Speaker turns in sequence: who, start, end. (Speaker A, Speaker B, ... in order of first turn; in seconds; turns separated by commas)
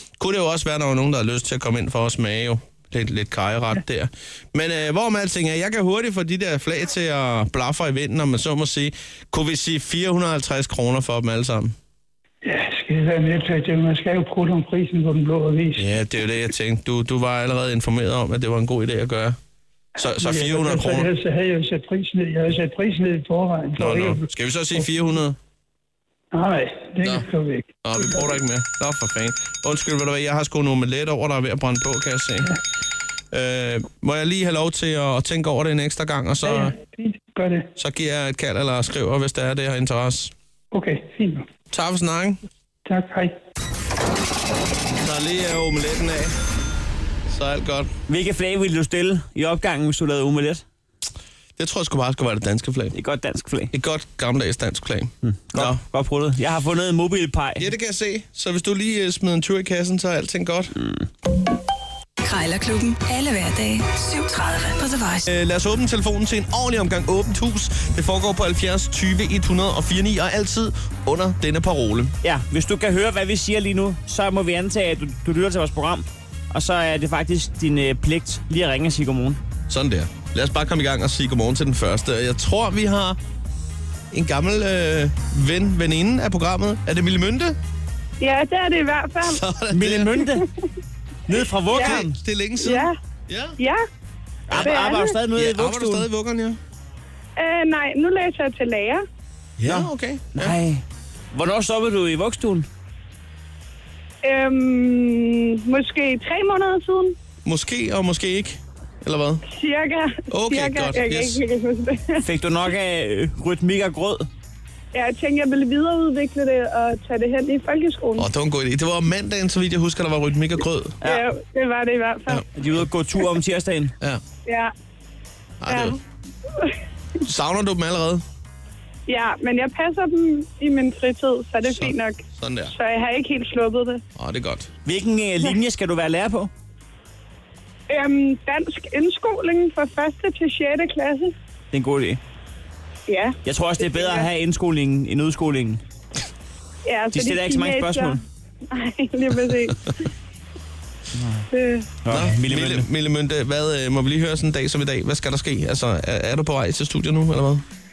Speaker A: 0.2-11.8, Speaker B: 12.4-15.9, Speaker A: 15.8-19.4, Speaker A: 20.0-21.1, Speaker B: 20.1-24.9, Speaker A: 23.8-25.4, Speaker B: 26.3-28.2, Speaker A: 27.8-32.5, Speaker A: 33.3-36.7, Speaker B: 36.4-37.7, Speaker A: 37.8-40.3, Speaker B: 40.7-41.5, Speaker A: 41.7-42.4, Speaker B: 42.8-43.4, Speaker A: 44.9-46.4, Speaker A: 47.3-47.9, Speaker C: 48.1-50.6, Speaker A: 51.6-52.9, Speaker C: 52.9-53.7, Speaker A: 53.7-55.8, Speaker C: 55.2-57.7, Speaker A: 57.6-60.7, Speaker D: 62.2-65.2, Speaker A: 65.2-72.1, Speaker C: 72.2-79.4, Speaker A: 79.7-83.2, Speaker A: 84.1-87.6, Speaker E: 88.2-89.4, Speaker A: 89.2-90.1, Speaker C: 89.7-90.4, Speaker C: 91.3-92.2, Speaker E: 91.7-92.0, Speaker A: 91.7-93.6, Speaker E: 92.6-92.9, Speaker C: 94.5-96.1, Speaker E: 94.5-95.2, Speaker A: 95.3-96.6, Speaker E: 97.4-99.0, Speaker A: 99.6-100.6, Speaker C: 99.7-102.7, Speaker E: 104.2-107.2, Speaker A: 107.4-109.4, Speaker E: 109.5-112.2, Speaker A: 110.3-111.4, Speaker C: 112.2-114.2, Speaker E: 114.9-118.3, Speaker A: 118.2-121.0, Speaker E: 121.0-122.4, Speaker C: 122.5-123.9, Speaker E: 124.4-124.7, Speaker A: 125.6-126.0, Speaker E: 125.7-126.0, Speaker A: 127.2-128.2, Speaker E: 129.1-134.0, Speaker A: 131.6-132.7, Speaker A: 134.2-134.7, Speaker C: 134.8-136.5, Speaker E: 137.9-141.3, Speaker C: 141.7-142.2, Speaker E: 143.1-144.3, Speaker C: 143.4-145.8, Speaker E: 146.8-148.2, Speaker C: 147.1-148.2, Speaker E: 148.7-149.9, Speaker C: 151.1-151.5, Speaker E: 151.5-151.9, Speaker C: 152.0-152.9, Speaker A: 152.1-157.6